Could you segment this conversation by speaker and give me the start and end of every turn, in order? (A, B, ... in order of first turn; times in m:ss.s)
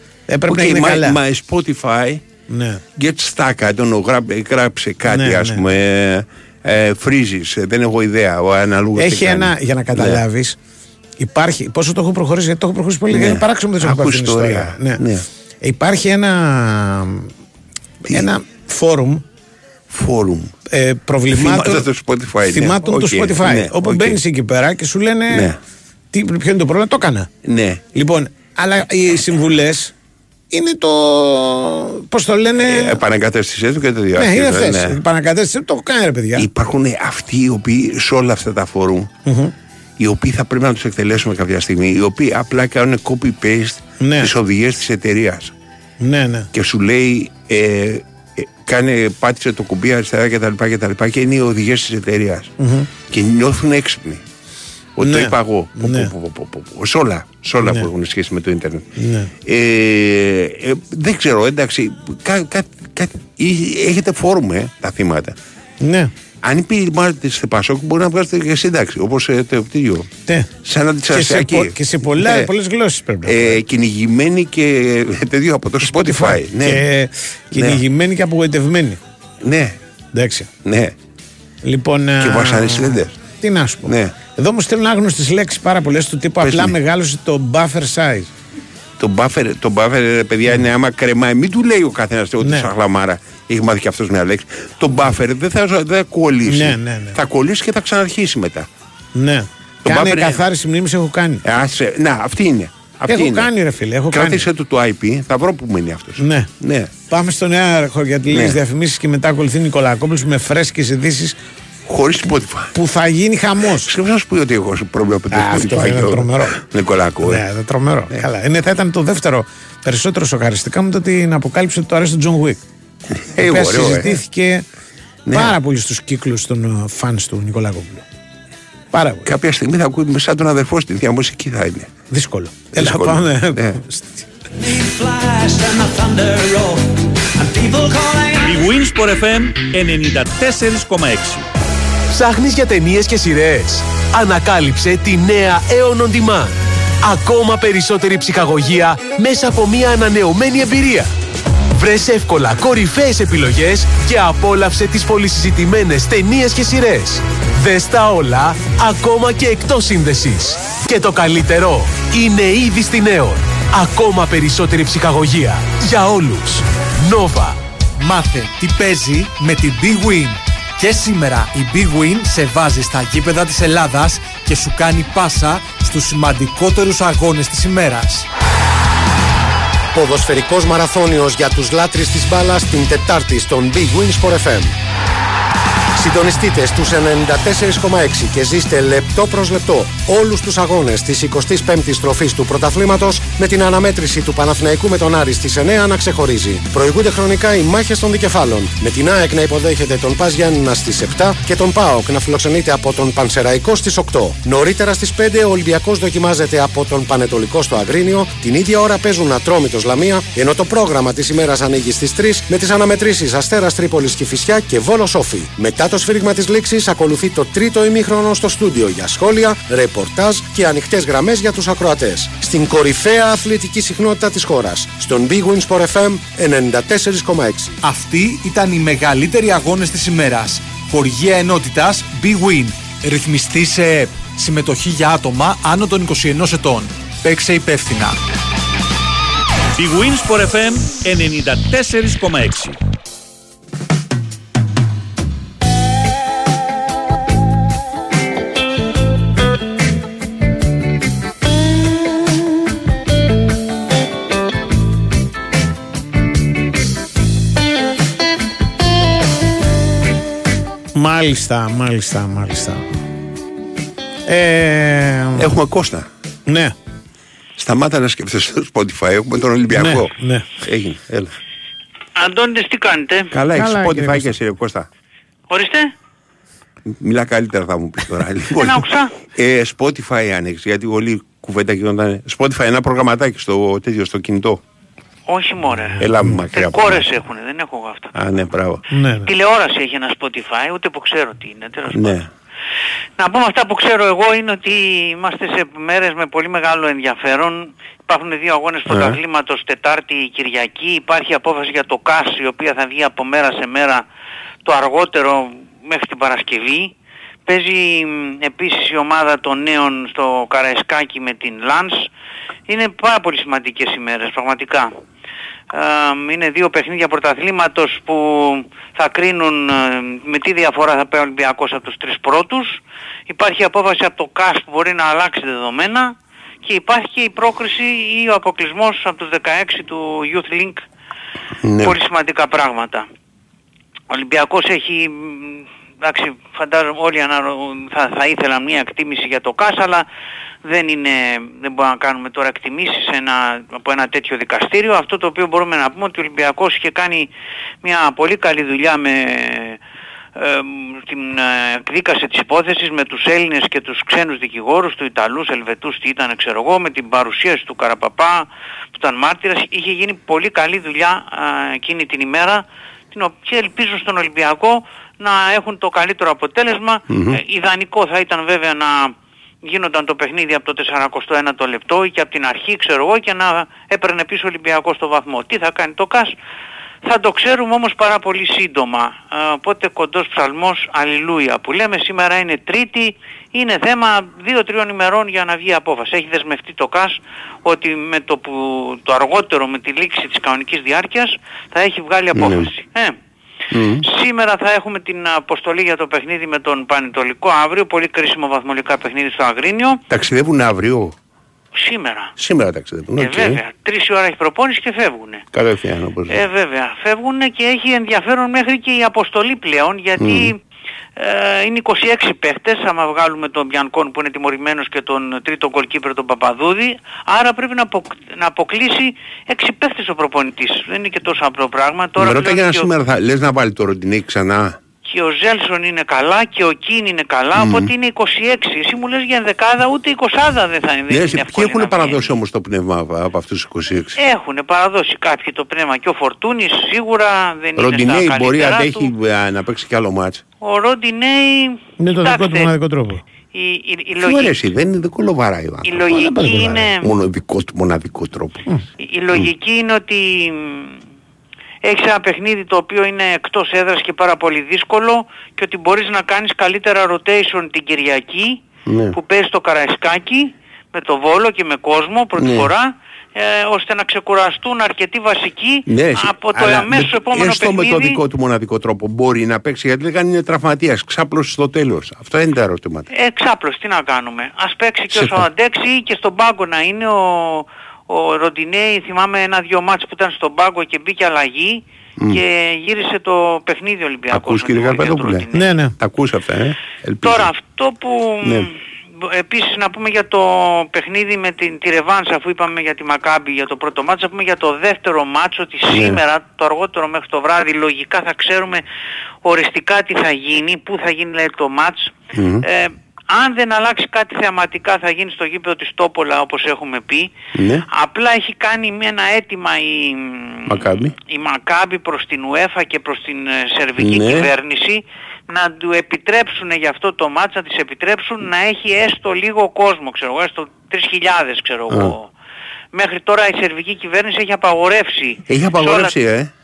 0:00.3-0:01.2 A
0:00.5-0:02.2 B
0:02.5-0:02.8 A
0:03.0-0:10.2 B
0:05.1-0:05.7 A
0:09.0-0:10.6 A
0:11.2-0:15.0 A
0:13.1-0:15.2 B
0:15.6-0:17.3 A
0:18.0-0:18.3 B
0:18.1-0:19.2 A
0:19.9-0:20.6 B
0:20.7-0:21.9 A
0:21.3-0:24.2 B
0:22.5-0:25.5 A
0:25.3-0:25.6 B
0:26.1-0:27.3 A
0:27.4-0:27.8 B
0:27.9-0:29.9 A
0:30.5-0:33.0 A
0:32.6-0:35.0 B
0:34.2-0:36.5 A
0:36.4-0:39.1 B
0:39.3-0:39.5 A
0:40.0-0:45.5 B
0:44.0-0:44.3 A
0:46.0-0:46.5 A
0:46.5-0:54.2 B
0:52.6-0:52.9 A
0:55.0-1:05.4 B
0:55.0-0:56.1 A
0:57.6-0:57.9 A
0:59.0-0:59.3 A
1:05.8-1:06.1 A
1:06.4-1:10.1 B
1:10.6-1:12.5 B
1:11.1-1:13.6 A
1:13.2-1:16.8 B
1:15.8-1:19.0 A
1:17.5-1:17.8 B
1:19.4-1:19.8 B
1:20.1-1:20.5 A
1:20.6-1:20.9 B
1:21.6-1:28.3 A
1:22.2-1:23.1 B
1:23.9-1:24.1 B
1:26.4-1:26.8 B
1:29.0-1:38.7 B
1:32.4-1:32.7 A
1:36.5-1:37.2 A
1:39.2-1:41.4 A
1:39.8-1:40.4 B
1:41.4-1:43.5 B
1:43.1-1:44.5 A
1:44.1-1:46.9 B
1:46.2-1:46.5 A
1:47.1-1:51.4 A
1:48.3-1:48.6 B
1:51.9-1:52.8 B
1:52.8-1:54.0 A
1:53.8-1:57.4 B
1:55.3-1:56.6 A
1:57.2-2:02.6 A
2:03.1-2:04.2 B
2:03.4-2:04.6 A
2:05.3-2:05.6 B
2:05.3-2:08.1 A
2:08.9-2:09.3 A
2:09.2-2:11.9 B
2:12.1-2:14.2 A
2:12.7-2:13.8 B
2:14.6-2:18.6 C
2:18.4-2:21.5 D
2:22.1-2:31.1 E
2:31.8-2:47.6 E
2:48.0-2:58.3 F
2:59.9-3:04.7 G
3:06.0-3:47.8 G
3:47.8-3:58.2 F
3:59.7-4:02.8 D
4:21.0-4:22.8 A
4:24.3-4:25.5 A
4:25.4-4:26.1 B
4:26.5-4:26.7 A
4:27.6-4:31.4 B
4:29.7-4:30.5 A
4:32.2-4:33.3 H
4:33.3-4:34.9 B
4:33.5-4:34.3 A
4:35.5-4:35.9 H
4:36.9-4:44.6 B
4:38.6-4:39.2 H
4:45.3-4:48.1 H
4:46.0-4:47.1 B
4:48.2-4:48.8 B
4:48.9-4:49.3 A
4:49.2-4:52.1 H
4:51.9-4:52.3 B
4:53.2-5:04.0 H
4:58.9-4:59.2 B
5:04.6-5:06.9 H
5:07.5-5:12.1 H
5:12.7-5:14.9 H
5:15.7-5:30.8 H
5:31.6-5:32.0 B
5:31.8-5:33.1 H
5:34.1-5:40.0 H
5:40.6-5:47.3 H
5:47.8-5:49.8 H
5:50.4-6:16.3 H
6:07.1-6:07.4 B
6:17.0-6:33.2 H
6:32.4-6:32.7 B
6:33.7-6:34.1 B
6:34.0-6:40.0 H
6:40.1-6:41.2 B
6:41.7-6:42.3 H
6:42.4-6:43.6 B
6:43.1-6:45.4 H
6:45.5-6:46.4 B
6:46.3-6:50.6 H
6:50.2-6:50.5 B
6:51.2-7:02.9 H
7:02.2-7:04.8 B
7:05.1-7:12.2 H
7:07.6-7:07.9 B
7:11.1-7:14.2 B
7:14.2-7:19.1 H
7:17.8-7:20.4 B
7:20.6-7:22.7 H
7:22.0-7:23.2 A
7:23.5-7:24.5 H
7:24.2-7:26.2 B
7:25.8-7:27.1 H
7:26.1-7:26.9 A
7:27.0-7:28.6 B
7:29.0-7:31.0 H
7:31.8-7:48.2 H
7:38.9-7:39.2 B
7:42.4-7:42.7 B
7:45.9-7:53.1 B
7:53.1-8:05.7 H
7:55.1-7:55.5 B
8:02.2-8:02.4 B
8:04.3-8:05.5 B
8:05.5-8:06.0 A
8:06.0-8:07.5 B
8:07.2-8:18.8 H
8:08.4-8:08.7 B
8:15.9-8:16.2 B
8:19.4-8:27.3 H
8:22.3-8:22.7 B
8:27.6-8:27.8 B
8:27.9-8:42.3 H
8:30.7-8:31.2 B
8:34.0-8:34.5 B
8:41.9-8:42.2 B
8:42.9-8:46.2 H
8:45.5-8:46.5 B